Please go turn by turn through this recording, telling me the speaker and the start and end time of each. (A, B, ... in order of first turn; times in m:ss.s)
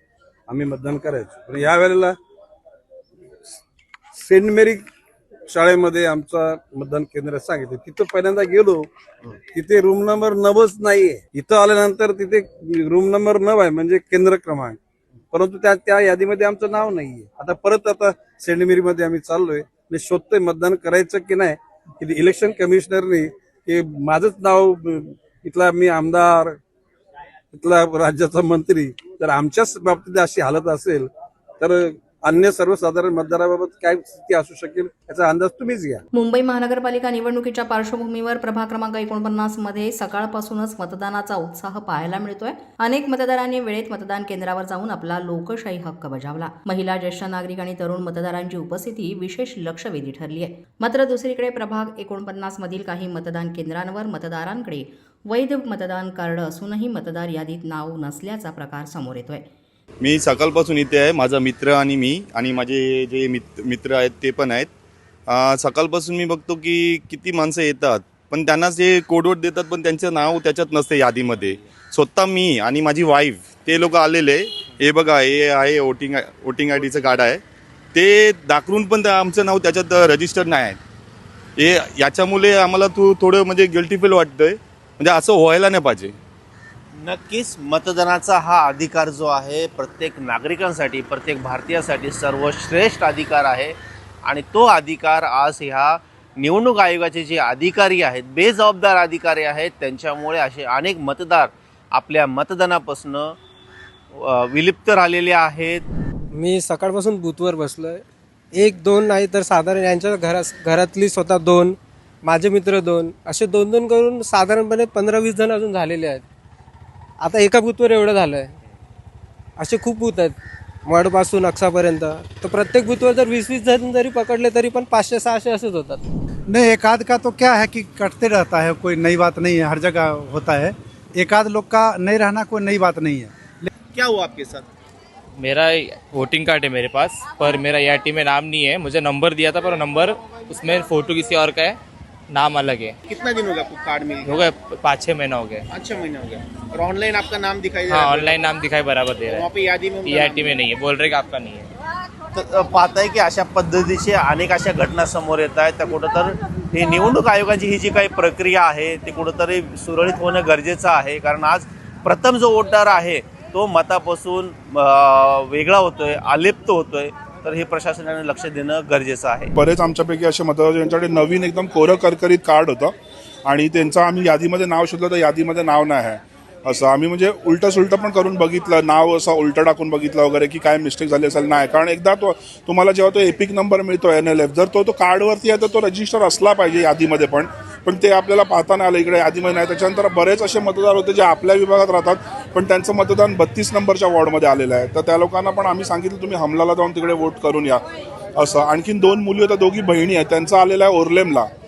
0:00.5-0:02.2 A
0:04.1-0:04.8 A
0:05.5-0:08.9 A
0:09.5-0:14.8 A
0:15.3-0:26.6 A
0:27.5-0:36.0 A
0:36.2-0:59.5 B
1:00.0-1:04.7 C
1:05.3-1:17.4 C
1:17.9-1:20.8 C
1:21.6-1:26.2 C
1:27.0-1:43.4 D
1:44.1-1:45.8 D
1:46.4-1:48.0 E
1:48.6-1:51.8 E
1:52.3-1:56.2 E
1:57.2-1:58.5 E
1:59.6-2:00.4 E
2:00.9-2:06.0 E
2:06.5-2:13.7 F
2:13.9-2:14.7 D
2:15.4-2:21.8 G
2:22.3-2:23.0 G
2:23.1-2:24.4 D
2:24.2-2:25.6 G
2:25.7-2:28.4 D
2:27.9-2:29.5 G
2:29.3-2:30.6 D
2:30.0-2:31.7 G
2:32.3-2:49.5 D
2:49.6-2:52.9 H
2:53.5-3:17.8 H
3:18.4-3:21.5 H